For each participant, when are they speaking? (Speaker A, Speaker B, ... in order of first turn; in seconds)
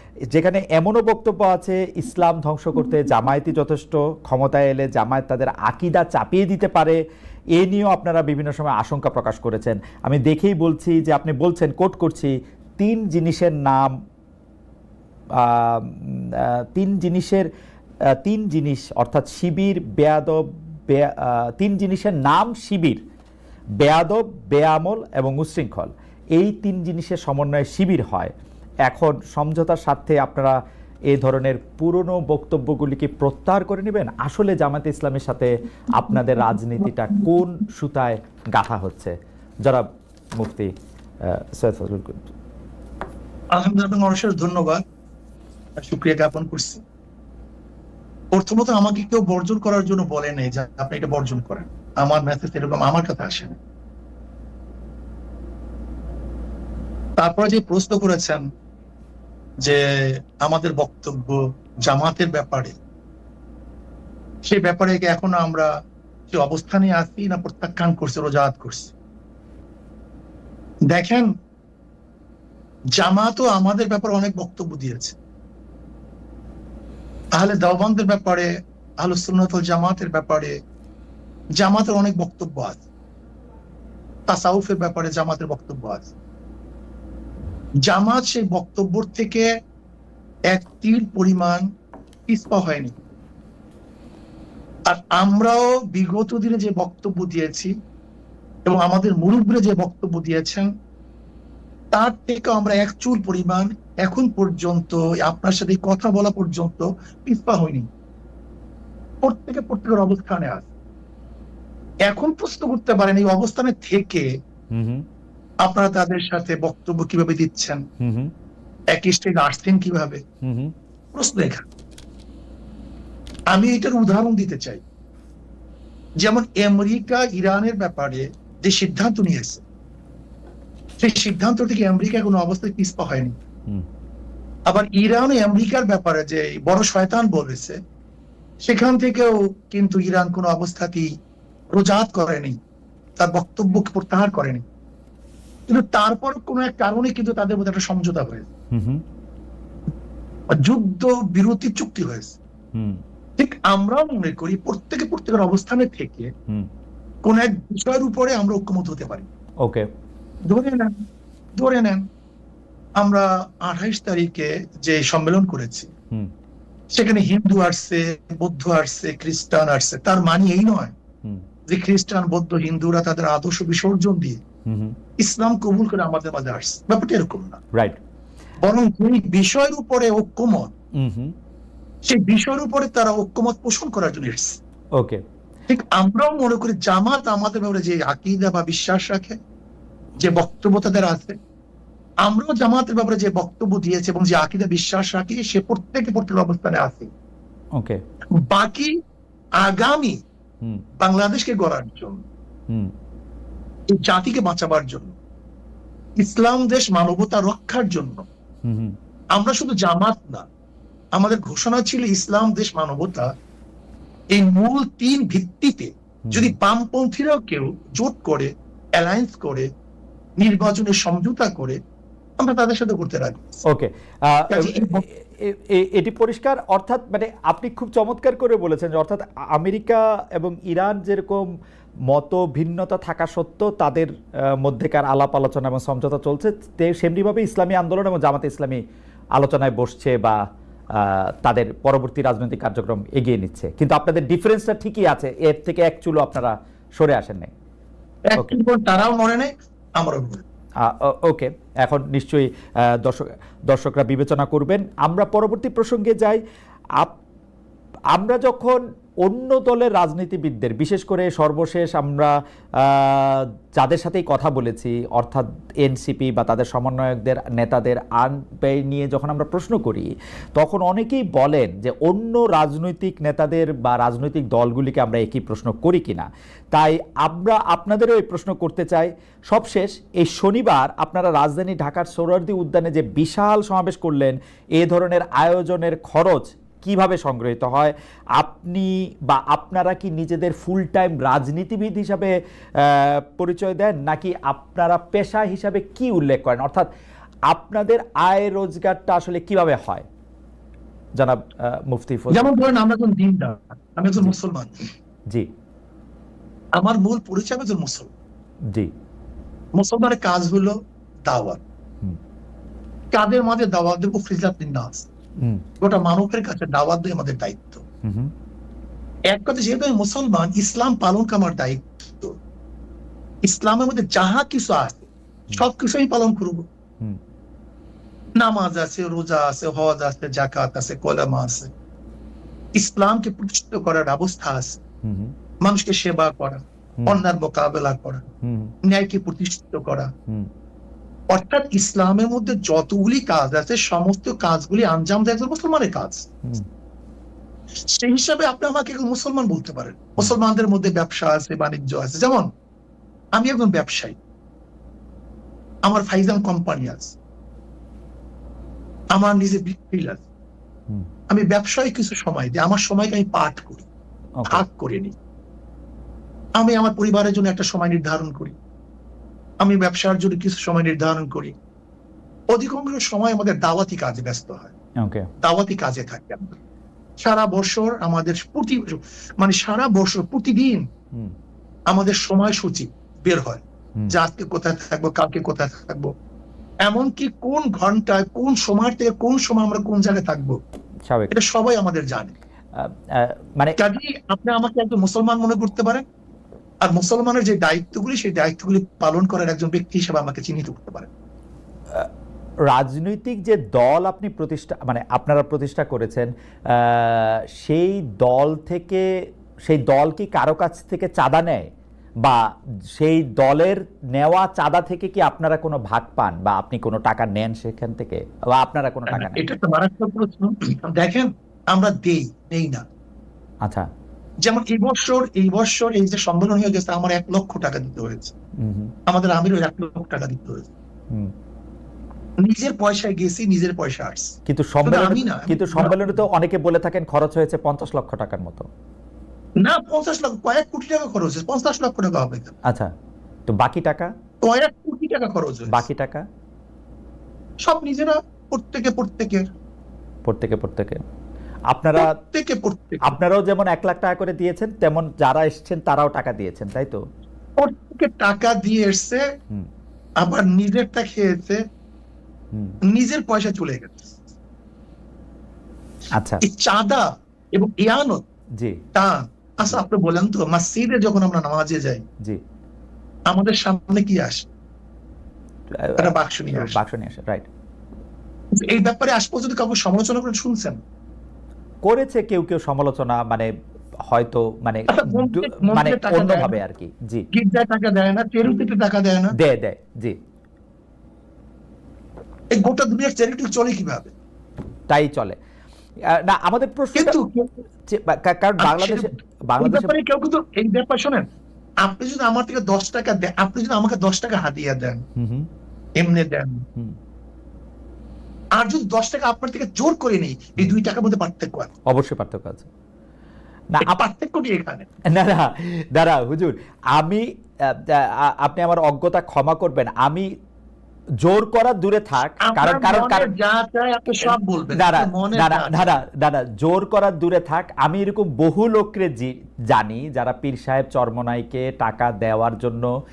Speaker A: 0.3-7.0, 7.5-13.9, 15.4-17.5, 18.2-23.0, 23.8-28.3, 28.9-30.6, 31.1-39.1, 40.4-40.7, 41.2-42.3, 114.7-115.0, 118.0-118.3, 120.4-120.7, 148.7-149.0, 152.7-153.0, 159.6-159.9, 174.7-174.9, 180.9-181.3, 185.0-185.2, 208.6-208.9, 216.3-216.5, 223.6-231.4, 232.1-238.8, 239.3-240.4, 240.9-247.5, 250.8-256.4, 258.1-296.9, 297.5-300.0, 301.2-302.5, 318.0-318.3, 335.0-335.3, 338.4-338.7, 364.4-364.6, 375.0-375.3, 391.1-391.3, 392.8-393.8, 402.7-409.0, 409.6-411.7, 413.0-419.4, 428.6-428.9, 434.5-438.7, 443.5-444.1, 445.7-446.2, 450.2-451.0, 451.7-452.1, 453.0-457.0, 466.1-466.4, 475.7-477.4, 481.8-483.5, 484.1-487.2, 489.4-490.1, 494.9-495.4, 496.1-497.1, 497.9-499.9, 505.2-505.5, 511.9-512.7, 515.1-520.3, 521.2-523.3, 524.2-532.9
Speaker B: 43.5-44.8, 45.8-46.8, 48.3-53.6, 57.2-58.4, 60.4-62.8, 64.5-65.7, 66.3-68.9, 70.9-71.3, 73.0-75.2, 77.3-78.5, 79.0-80.5, 81.6-82.8, 84.3-86.1, 87.8-89.5, 90.5-91.6, 92.3-92.9, 94.9-97.7, 98.7-100.7, 101.9-107.9, 109.2-110.7, 112.1-114.3, 115.6-117.8, 118.9-120.2, 121.1-121.6, 123.5-124.8, 126.2-129.6, 131.0-133.3, 134.7-137.8, 138.6-141.1, 141.7-142.5, 143.2-144.6, 145.7-148.5, 150.6-152.4, 153.4-156.3, 157.2-159.3, 160.5-160.9, 161.6-162.0, 163.0-165.9, 166.9-170.9, 171.7-174.4, 175.2-177.6, 178.6-180.7, 182.1-184.6, 185.7-189.4, 190.2-191.3, 192.2-197.1, 198.5-198.9, 199.6-200.2, 201.0-202.2, 203.9-205.1, 206.2-208.2, 209.3-210.4, 211.2-213.3, 214.3-219.7, 220.4-221.8, 222.4-223.6, 224.5-225.1, 248.3-250.4, 302.3-304.7, 306.8-308.1, 309.7-311.6, 313.1-315.1, 315.8-317.8, 319.3-322.4, 323.4-326.6, 328.4-331.7, 332.8-334.8, 335.6-338.2, 338.9-340.1, 341.3-346.3, 347.9-352.4, 353.3-354.2, 355.8-357.1, 359.1-360.2, 361.3-363.9, 364.5-365.1, 366.6-368.5, 369.6-371.5, 372.5-374.7, 375.4-376.6, 377.2-380.9, 381.9-386.1, 386.9-390.6, 391.3-392.4, 393.8-396.0, 396.8-401.1, 419.1-422.8, 424.4-428.3, 429.1-430.7, 432.4-434.3, 434.8-436.2, 439.6-442.5, 444.4-445.8, 447.6-449.4, 451.9-453.1, 457.6-459.2, 460.2-461.6, 462.9-464.1, 466.4-468.2, 468.9-472.0, 473.3-474.5, 476.0-476.8, 478.6-480.8, 484.9-486.6, 487.3-489.3, 492.5-494.1, 496.9-497.5, 498.6-499.1, 499.6-501.2, 501.8-505.0, 506.0-506.6, 508.6-511.7, 513.8-514.9, 522.4-525.9